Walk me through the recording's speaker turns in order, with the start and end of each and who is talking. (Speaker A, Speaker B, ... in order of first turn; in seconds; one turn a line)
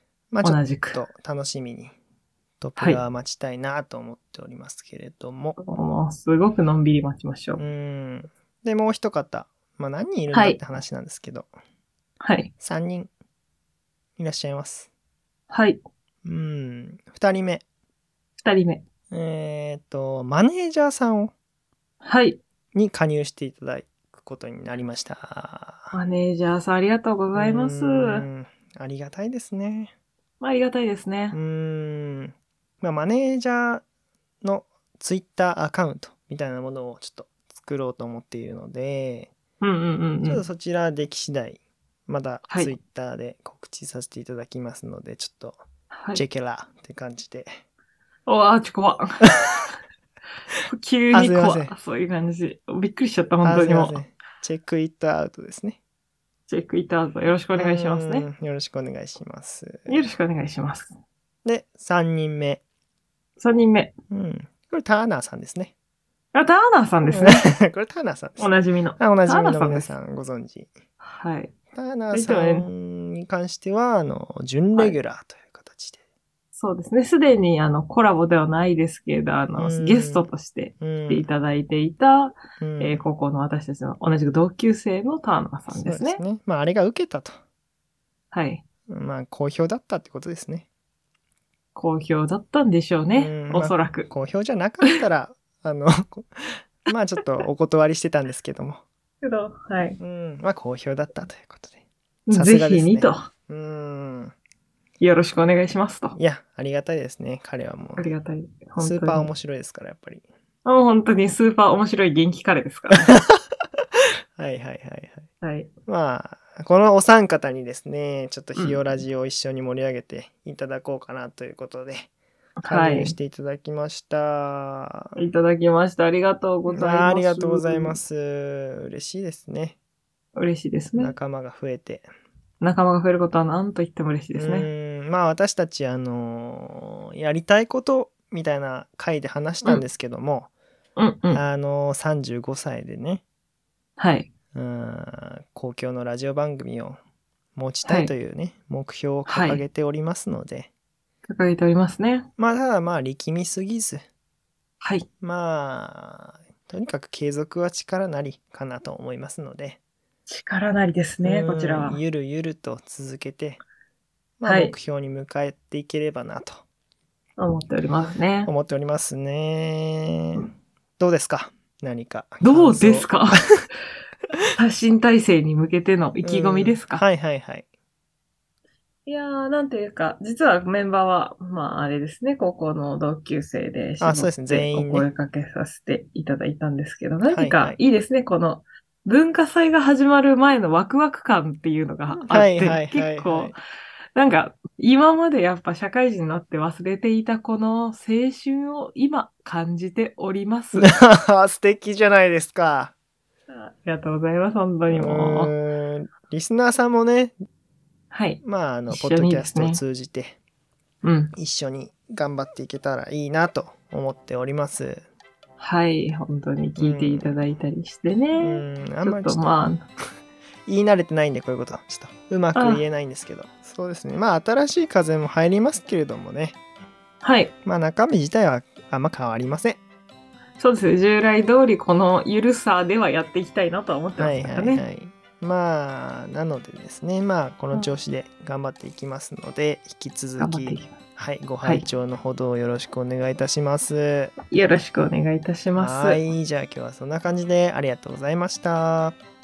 Speaker A: 0.3-1.9
Speaker B: 0.4-1.0
Speaker A: 2.6-5.6
Speaker B: 5.6-7.6
Speaker A: 7.6-11.5
Speaker B: 10.3-10.6
Speaker B: 12.2-12.5
Speaker A: 12.6-13.1
Speaker A: 14.2-14.9
Speaker B: 15.5-15.8
Speaker A: 16.2-17.6
Speaker B: 18.4-18.8
Speaker A: 19.1-21.3
Speaker B: 22.0-22.4
Speaker A: 22.7-25.9
Speaker B: 25.9-28.3
Speaker A: 27.4-29.9
Speaker B: 30.4-31.4
Speaker A: 31.3-33.8
Speaker A: 34.4-39.3
Speaker B: 39.6-40.4
Speaker A: 40.2-45.6
Speaker B: 45.9-46.2
Speaker A: 46.1-47.6
Speaker B: 48.3-49.2
Speaker B: 50.7-54.0
Speaker A: 51.1-51.8
Speaker A: 53.4-55.8
Speaker B: 56.5-58.3
Speaker A: 57.5-60.1
Speaker B: 59.9-61.0
Speaker A: 61.5-62.6
Speaker B: 63.4-63.9
Speaker A: 64.1-65.7
Speaker B: 66.3-67.5
Speaker A: 67.1-70.7
Speaker B: 68.4-69.9
Speaker B: 71.0-71.5
Speaker A: 71.7-76.0
Speaker B: 72.1-72.7
Speaker B: 76.5-86.2
Speaker A: 79.6-80.3
Speaker A: 80.8-81.3
Speaker A: 82.6-83.0
Speaker A: 85.7-87.4
Speaker B: 88.3-88.6
Speaker A: 88.9-90.7
Speaker B: 91.8-94.1
Speaker A: 93.2-98.8
Speaker B: 99.2-100.0
Speaker A: 100.0-101.8
Speaker B: 102.3-103.3
Speaker A: 102.3-104.3
Speaker B: 105.0-106.2
Speaker A: 106.2-108.1
Speaker B: 108.0-109.3
Speaker A: 108.8-110.2
Speaker B: 110.7-113.2
Speaker A: 112.9-113.4
Speaker A: 114.4-115.3
Speaker B: 115.4-115.7
Speaker A: 115.9-122.1
Speaker B: 118.6-118.8
Speaker B: 122.6-123.2
Speaker A: 122.6-125.2
Speaker B: 125.2-128.0
Speaker A: 126.7-129.8
Speaker B: 130.3-131.2
Speaker A: 131.0-132.1
Speaker B: 132.6-134.7
Speaker A: 134.3-140.5
Speaker B: 141.0-141.4
Speaker A: 141.3-143.2
Speaker B: 144.0-144.3
Speaker A: 144.5-147.0
Speaker A: 147.6-150.7
Speaker B: 147.8-148.1
Speaker B: 149.3-149.6
Speaker B: 151.3-152.3
Speaker A: 152.4-154.1
Speaker B: 154.8-155.1
Speaker A: 155.2-159.8
Speaker B: 160.3-162.0
Speaker A: 161.2-163.6
Speaker A: 164.4-166.6
Speaker B: 164.4-164.8
Speaker B: 167.4-168.5
Speaker A: 168.5-173.6
Speaker B: 172.4-173.5
Speaker B: 174.6-177.0
Speaker A: 176.2-177.7
Speaker B: 179.1-193.6
Speaker A: 184.0-185.1
Speaker A: 187.2-187.8
Speaker A: 192.2-193.6
Speaker B: 194.2-200.9
Speaker A: 200.7-202.9
Speaker B: 203.5-205.5
Speaker A: 204.9-207.3
Speaker B: 208.1-209.8
Speaker A: 208.4-210.4
Speaker B: 211.0-211.3
Speaker A: 211.4-215.0
Speaker B: 215.6-219.9
Speaker A: 216.8-217.3
Speaker A: 218.3-219.5
Speaker A: 220.7-226.6
Speaker B: 222.6-222.8
Speaker B: 227.2-227.5
Speaker A: 227.7-229.8
Speaker B: 230.6-234.8
Speaker A: 234.2-244.4
Speaker B: 240.4-241.0
Speaker B: 244.5-246.2
Speaker A: 245.8-249.2